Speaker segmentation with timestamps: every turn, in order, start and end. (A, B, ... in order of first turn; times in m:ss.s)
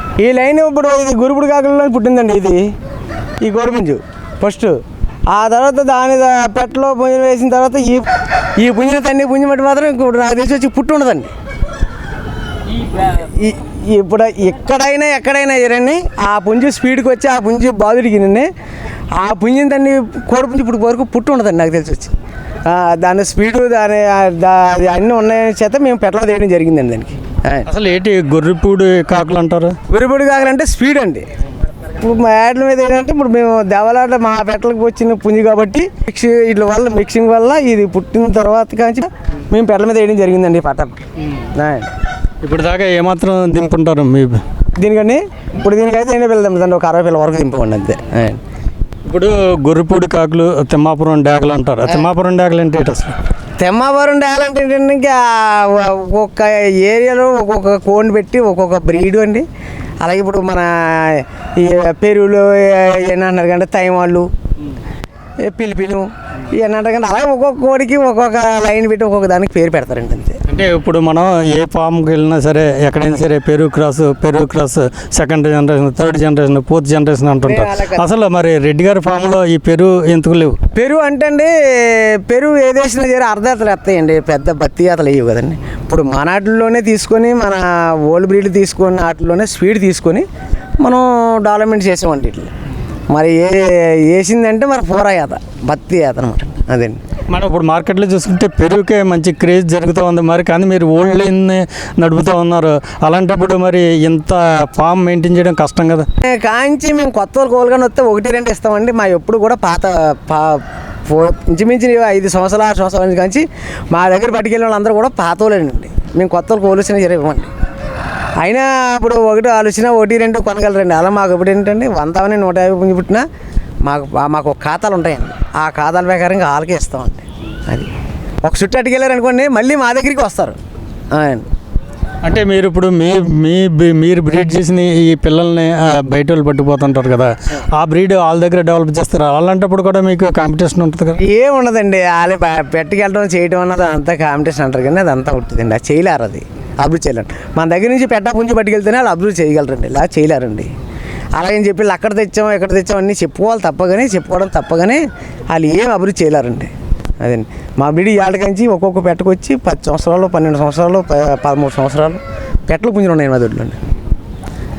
0:00.2-0:02.6 A
0:03.4-0:04.8 A
0:05.3-0:08.1 A
0:08.6-0:11.3 A
0:12.8-0:18.5 A
0:19.2-0:22.1 A
0:22.6-0:27.7 A
0:27.6-0:29.8 B
0:29.9-0:31.2 A
0:32.0-0:41.9 A
0:42.4-0:44.4 B
0:44.8-0:48.4 A
0:49.0-0:53.2 B
0:53.6-0:59.4 A
1:00.0-1:04.3 A
1:05.4-1:10.4 A
1:10.5-1:20.6 B
1:17.4-1:18.1 A
1:20.7-1:30.3 A
1:30.8-1:32.5 A
1:33.1-1:37.0 A
1:37.3-1:46.1 B
1:46.2-1:57.5 A
1:58.4-2:03.2 A
2:03.8-2:07.9 A
2:08.4-2:10.6 A
2:11.1-2:11.4 A
2:12.2-2:21.2 B
2:21.2-2:30.7 A
2:31.3-2:36.7 A
2:37.2-2:43.8 A